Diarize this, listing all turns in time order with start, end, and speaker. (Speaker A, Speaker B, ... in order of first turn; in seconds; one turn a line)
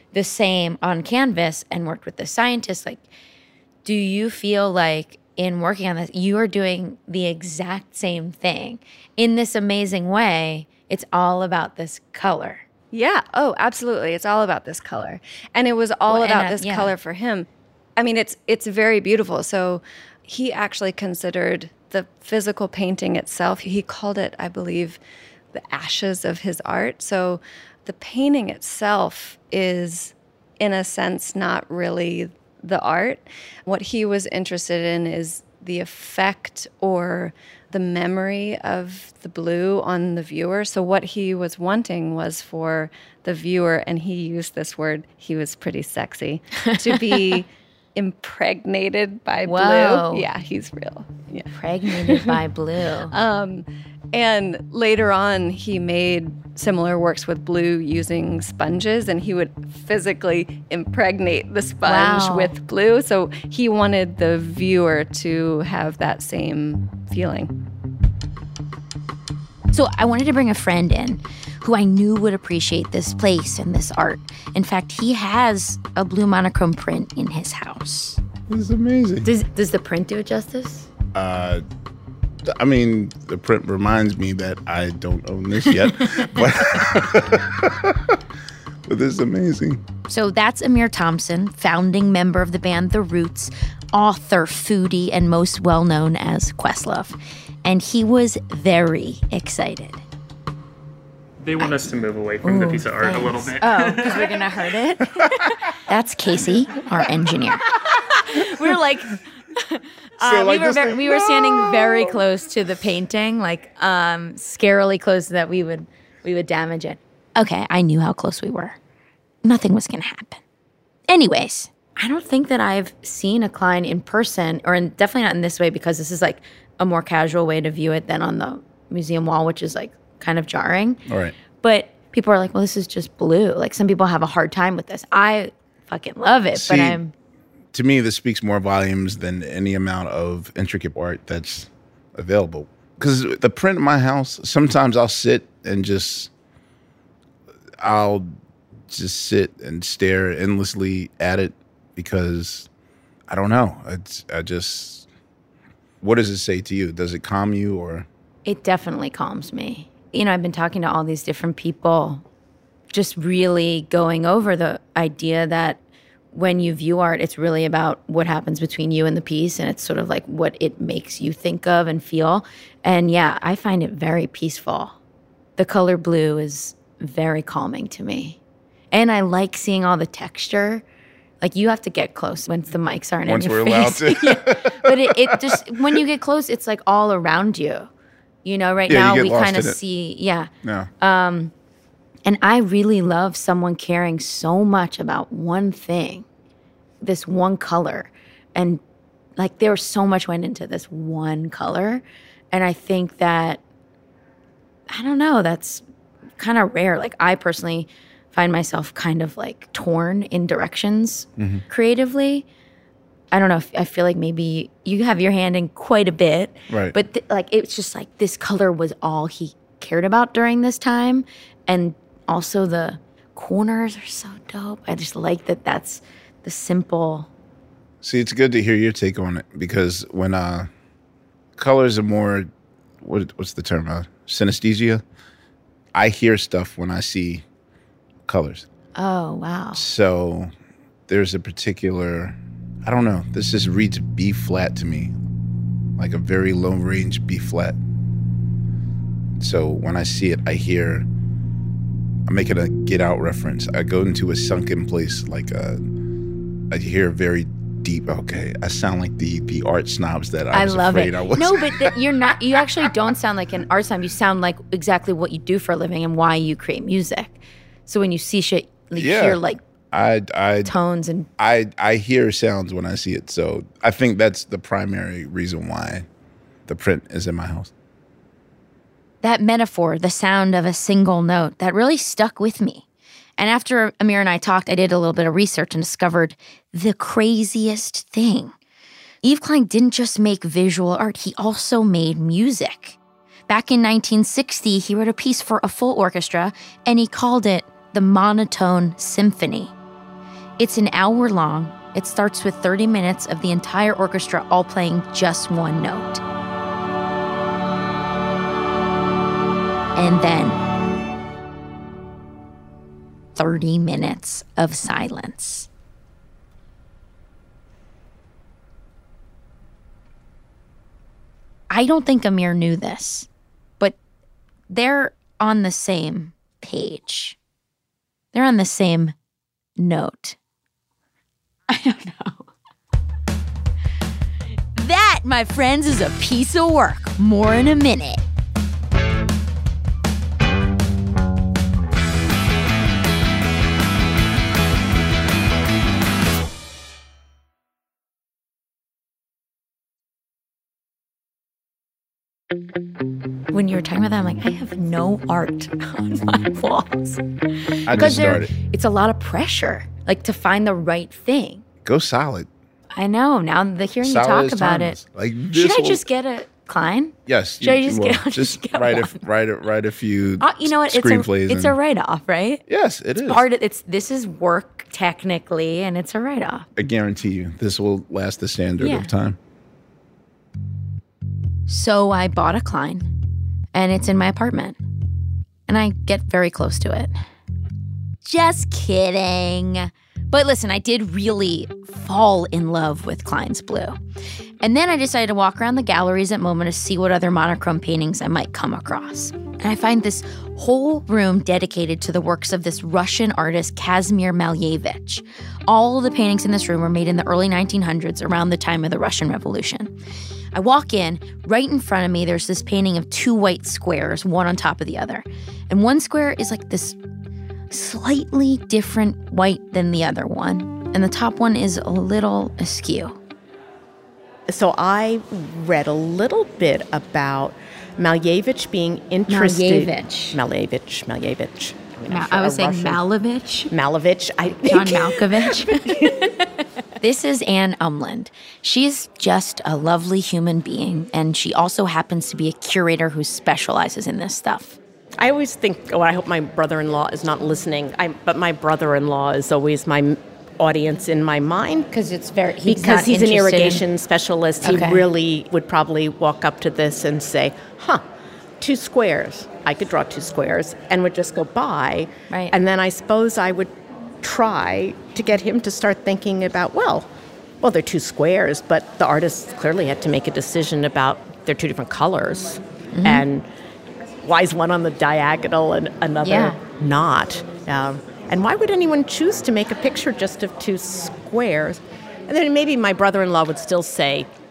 Speaker A: 0.1-3.0
Speaker A: 3.8-12.6
Speaker B: 12.9-25.0
Speaker A: 16.1-16.9
Speaker B: 25.5-52.4
Speaker A: 46.6-47.4
Speaker A: 49.4-50.2
Speaker A: 51.5-53.1
Speaker B: 53.1-67.5
Speaker A: 61.8-62.5
Speaker A: 69.7-78.2
Speaker C: 78.5-79.3
Speaker A: 79.2-80.9
Speaker C: 81.1-81.6
Speaker C: 82.5-88.2
Speaker C: 88.8-89.8
Speaker A: 90.1-100.0
Speaker D: 101.4-104.2
Speaker A: 101.6-101.9
Speaker A: 102.4-118.8
Speaker C: 110.2-112.1
Speaker A: 119.4-120.4
Speaker A: 121.1-131.0
Speaker C: 131.1-131.3
Speaker A: 131.6-137.1
Speaker C: 136.5-137.0
Speaker C: 137.7-146.3
Speaker C: 147.8-148.3
Speaker C: 148.9-152.7
Speaker C: 153.3-155.1
Speaker C: 156.0-158.1
Speaker A: 158.4-162.2
Speaker A: 162.9-165.8
Speaker A: 166.3-174.9
Speaker A: 175.6-178.4
Speaker A: 178.9-180.8
Speaker A: 181.4-187.9
Speaker C: 183.3-185.6
Speaker A: 188.4-190.5
Speaker C: 188.9-189.8
Speaker C: 190.6-190.9
Speaker A: 191.0-191.5
Speaker A: 192.2-196.2
Speaker A: 197.0-198.8
Speaker A: 199.4-203.6
Speaker A: 204.9-205.8
Speaker A: 206.4-212.4
Speaker C: 211.4-211.6
Speaker A: 213.3-227.3
Speaker C: 216.7-216.9
Speaker C: 228.0-230.7
Speaker C: 231.6-232.5
Speaker C: 233.0-235.0
Speaker C: 235.9-237.4
Speaker C: 238.2-238.7
Speaker A: 238.9-239.8
Speaker C: 239.7-240.5
Speaker C: 241.1-245.2
Speaker C: 246.0-247.8
Speaker C: 249.4-251.1
Speaker C: 252.3-255.8
Speaker C: 256.7-261.9
Speaker A: 260.5-269.6
Speaker C: 268.9-270.7
Speaker A: 270.6-271.3
Speaker C: 271.4-276.1
Speaker C: 276.7-277.7
Speaker A: 279.2-282.8
Speaker A: 283.4-288.5
Speaker A: 289.2-299.7
Speaker A: 300.6-306.2
Speaker A: 309.9-310.6
Speaker A: 313.4-315.7
Speaker A: 321.7-323.3
Speaker A: 324.7-327.4
Speaker A: 328.3-329.1
Speaker A: 329.8-330.4
Speaker A: 331.7-332.5
Speaker A: 334.7-338.2
Speaker A: 353.5-357.2
Speaker C: 357.9-358.5
Speaker A: 357.9-361.6
Speaker C: 361.8-362.5
Speaker A: 362.9-365.0
Speaker C: 364.0-366.0
Speaker A: 365.5-369.2
Speaker C: 367.3-371.8
Speaker A: 370.4-372.6
Speaker C: 372.7-373.4
Speaker A: 373.2-376.7
Speaker C: 376.8-379.4
Speaker A: 378.8-379.1
Speaker A: 381.7-383.1
Speaker A: 383.7-384.8
Speaker A: 385.7-387.1
Speaker A: 388.2-394.0
Speaker A: 394.6-409.9
Speaker A: 410.5-417.0
Speaker A: 417.7-423.2
Speaker E: 424.5-433.0
Speaker A: 429.3-430.4
Speaker A: 432.1-433.7
Speaker E: 433.7-436.1
Speaker A: 434.5-436.5
Speaker A: 437.0-444.8
Speaker E: 445.2-451.9
Speaker A: 451.9-453.8
Speaker E: 452.6-458.0
Speaker A: 454.6-455.1
Speaker E: 458.6-467.1
Speaker A: 462.3-462.6
Speaker E: 467.6-473.4
Speaker A: 472.9-473.2
Speaker E: 474.2-484.3
Speaker A: 476.2-476.6